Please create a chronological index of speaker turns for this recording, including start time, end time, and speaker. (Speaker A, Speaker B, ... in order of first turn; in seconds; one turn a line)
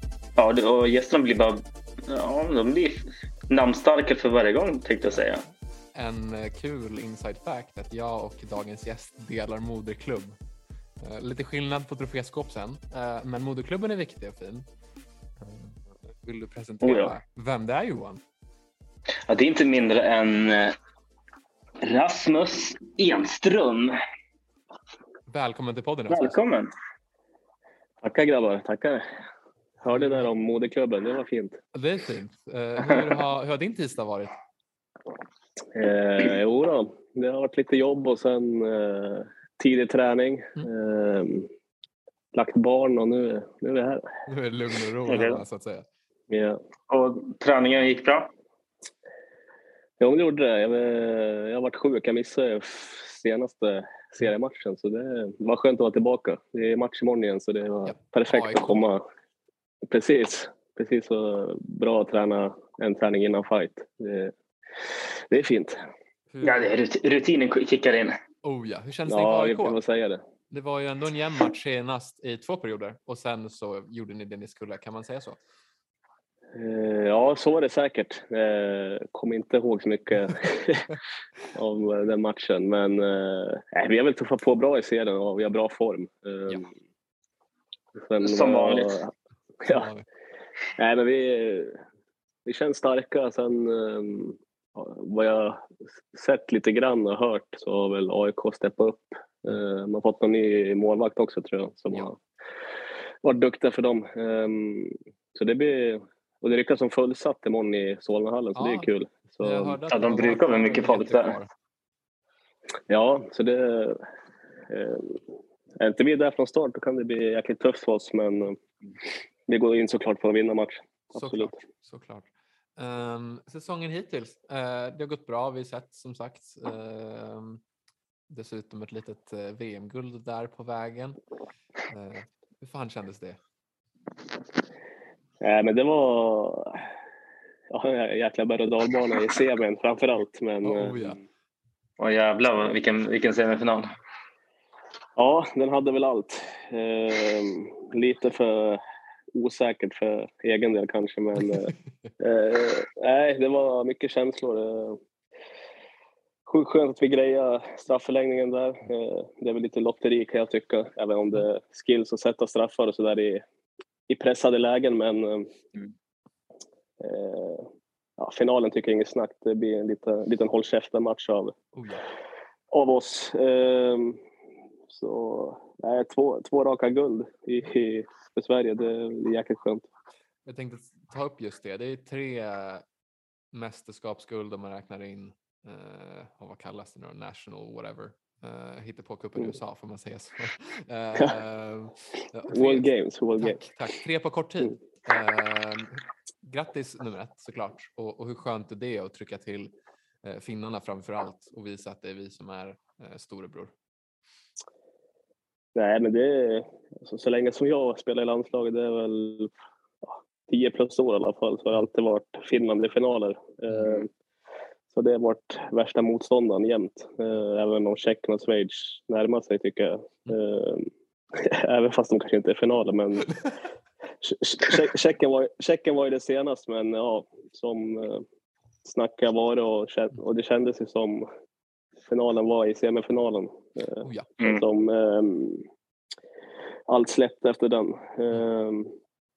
Speaker A: 0.4-5.4
Speaker B: 5.9-10.4
Speaker B: 11.0-14.7
Speaker B: 15.4-18.2
Speaker A: 16.8-17.1
Speaker A: 19.3-20.8
Speaker A: 21.8-24.0
Speaker B: 25.3-26.4
Speaker A: 26.1-26.7
Speaker C: 28.0-29.0
Speaker C: 29.8-31.6
Speaker B: 29.9-30.3
Speaker B: 31.7-34.4
Speaker C: 35.7-41.5
Speaker C: 42.3-44.1
Speaker B: 44.3-45.9
Speaker A: 45.1-45.4
Speaker C: 46.3-46.6
Speaker A: 46.9-48.3
Speaker C: 50.0-59.0
Speaker B: 57.9-58.9
Speaker C: 59.9-64.3
Speaker C: 65.3-65.8
Speaker B: 66.3-66.7
Speaker A: 66.4-68.2
Speaker B: 68.4-69.8
Speaker C: 69.1-70.2
Speaker B: 70.5-75.4
Speaker C: 76.5-80.9
Speaker C: 81.5-86.7
Speaker C: 88.0-89.8
Speaker A: 88.2-89.0
Speaker B: 89.7-90.1
Speaker C: 90.8-91.8
Speaker C: 92.5-102.2
Speaker C: 103.2-109.8
Speaker B: 108.5-111.5
Speaker A: 109.9-111.4
Speaker C: 112.9-114.0
Speaker C: 114.7-115.2
Speaker C: 115.8-118.6
Speaker C: 119.5-121.6
Speaker B: 121.1-127.6
Speaker B: 128.3-131.2
Speaker B: 131.9-133.4
Speaker C: 135.4-136.9
Speaker C: 137.7-141.2
Speaker B: 140.6-141.2
Speaker A: 142.0-143.9
Speaker C: 145.2-148.8
Speaker C: 149.3-155.0
Speaker C: 156.5-163.4
Speaker C: 164.1-165.5
Speaker C: 167.0-171.5
Speaker B: 171.7-172.1
Speaker C: 172.7-174.2
Speaker C: 174.9-179.9
Speaker B: 180.5-182.8
Speaker B: 183.5-199.7
Speaker C: 192.5-193.6
Speaker B: 200.2-203.7
Speaker C: 205.8-214.1
Speaker B: 213.7-214.0
Speaker C: 214.9-223.3
Speaker C: 224.2-228.2
Speaker C: 228.8-231.3
Speaker C: 232.1-235.7
Speaker B: 234.0-234.3
Speaker C: 236.9-238.9